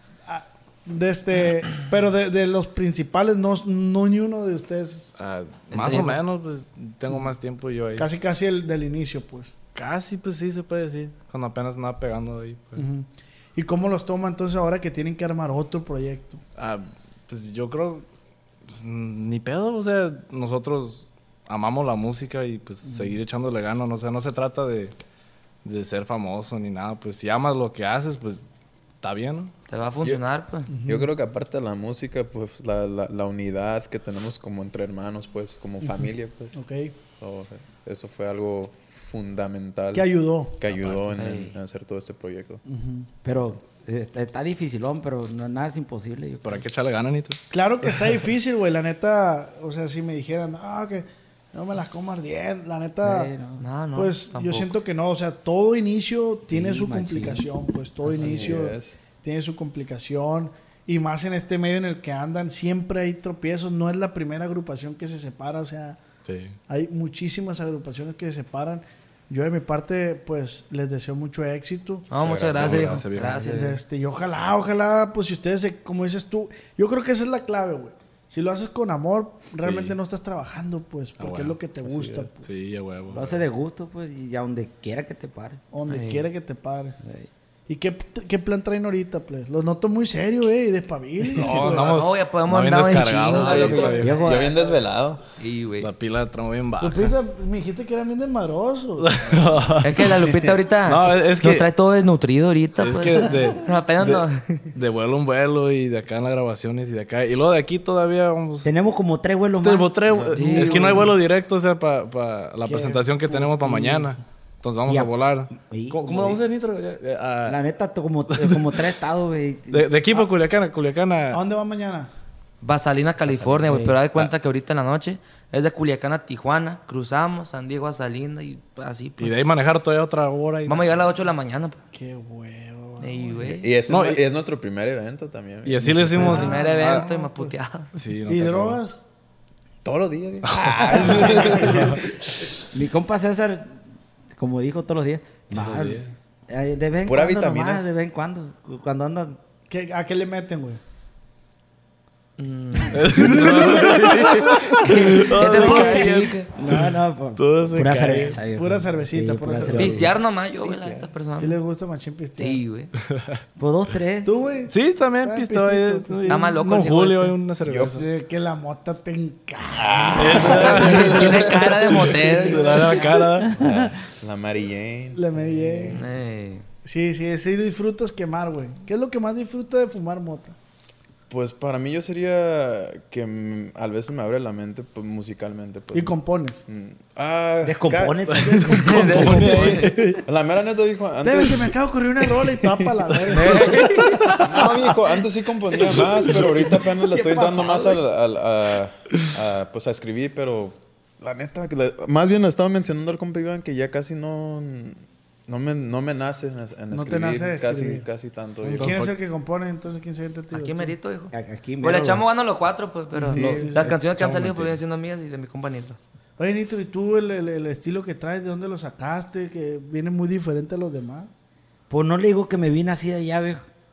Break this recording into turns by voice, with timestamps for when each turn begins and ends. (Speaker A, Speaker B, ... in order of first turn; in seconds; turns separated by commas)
Speaker A: 0.3-5.1, Speaker B: 5.2-8.1, Speaker C: 5.7-6.2, Speaker A: 8.0-9.5, Speaker B: 9.7-12.8, Speaker A: 12.8-16.4, Speaker B: 16.6-18.0, Speaker B: 18.7-24.9, Speaker A: 22.9-23.2, Speaker B: 25.6-28.4, Speaker B: 29.0-29.5, Speaker C: 29.7-30.7, Speaker A: 30.7-31.1, Speaker D: 30.9-36.6, Speaker A: 35.8-37.0, Speaker D: 37.2-42.6, Speaker A: 39.9-40.6, Speaker B: 40.7-41.0, Speaker C: 41.1-41.5, Speaker A: 42.6-43.1, Speaker E: 43.2-46.6, Speaker B: 46.4-48.1, Speaker A: 47.5-53.3, Speaker E: 53.0-53.6, Speaker C: 53.6-54.7, Speaker A: 53.9-66.0, Speaker E: 56.5-57.5, Speaker E: 58.0-58.7, Speaker D: 58.2-59.0, Speaker B: 66.2-66.6, Speaker A: 66.7-72.1, Speaker C: 72.1-73.8, Speaker D: 72.2-73.0, Speaker B: 72.5-73.7, Speaker E: 73.2-73.5, Speaker A: 73.5-82.4, Speaker B: 79.6-80.0, Speaker B: 81.2-83.4, Speaker E: 83.1-85.6, Speaker A: 85.7-87.0, Speaker C: 85.9-86.2, Speaker E: 87.0-87.3, Speaker A: 87.7-92.0, Speaker B: 91.3-94.2, Speaker C: 91.7-94.6, Speaker D: 93.3-95.2, Speaker E: 94.0-94.7, Speaker C: 95.4-95.9, Speaker B: 95.8-97.2, Speaker A: 96.8-99.4, Speaker B: 99.0-100.2, Speaker C: 99.8-104.7, Speaker B: 100.8-101.6, Speaker B: 102.8-108.7, Speaker E: 108.6-109.9, Speaker B: 109.6-117.6, Speaker D: 110.1-110.4, Speaker C: 110.3-111.1, Speaker A: 110.5-111.1, Speaker A: 112.6-114.2, Speaker E: 114.8-116.4, Speaker E: 117.5-119.9, Speaker B: 118.3-118.8, Speaker B: 119.7-121.4, Speaker A: 121.3-122.1, Speaker C: 122.6-129.5, Speaker E: 123.3-124.0, Speaker B: 129.2-131.0, Speaker C: 130.7-131.8, Speaker A: 131.9-133.6, Speaker C: 133.0-133.7, Speaker D: 133.5-135.9, Speaker B: 133.9-134.2, Speaker B: 135.6-137.1, Speaker A: 135.9-137.5, Speaker C: 136.2-137.9, Speaker B: 137.9-138.8, Speaker A: 138.3-139.0, Speaker D: 139.8-142.0, Speaker B: 140.5-141.8, Speaker A: 140.9-141.8, Speaker E: 142.7-143.8, Speaker E: 144.3-149.4, Speaker B: 145.5-146.1, Speaker D: 147.1-147.9, Speaker A: 149.7-150.8, Speaker C: 152.4-156.5, Speaker B: 152.9-158.4, Speaker A: 153.5-153.8, Speaker E: 154.8-160.1, Speaker A: 155.6-156.0, Speaker A: 158.4-160.1, Speaker C: 159.7-161.6, Speaker D: 160.6-161.1, Speaker A: 161.4-162.6, Speaker C: 162.4-162.9, Speaker B: 163.1-163.4, Speaker E: 163.6-164.3, Speaker A: 164.2-166.4, Speaker B: 164.7-168.0, Speaker C: 166.3-167.3, Speaker D: 167.6-168.0, Speaker A: 167.8-171.4, Speaker D: 169.8-171.3, Speaker B: 170.2-173.5, Speaker C: 170.6-173.2, Speaker A: 172.1-173.3, Speaker D: 173.5-175.2, Speaker E: 173.6-173.9, Speaker A: 175.1-176.0, Speaker C: 175.9-176.6, Speaker A: 176.8-180.5, Speaker D: 181.3-186.2, Speaker A: 185.9-186.6, Speaker D: 186.7-188.3, Speaker E: 187.6-189.8, Speaker B: 188.3-190.2, Speaker C: 188.7-190.0, Speaker D: 190.2-191.7, Speaker A: 191.2-193.9, Speaker C: 193.3-194.3, Speaker B: 193.5-194.4, Speaker D: 194.4-209.0, Speaker A: 196.9-198.0, Speaker A: 206.9-208.0, Speaker B: 208.6-209.1, Speaker A: 208.8-210.9, Speaker C: 210.5-216.0, Speaker E: 211.3-212.2, Speaker A: 213.1-213.9, Speaker D: 213.3-213.7, Speaker E: 213.3-213.9, Speaker B: 214.4-214.7, Speaker A: 216.4-221.3, Speaker E: 221.9-223.7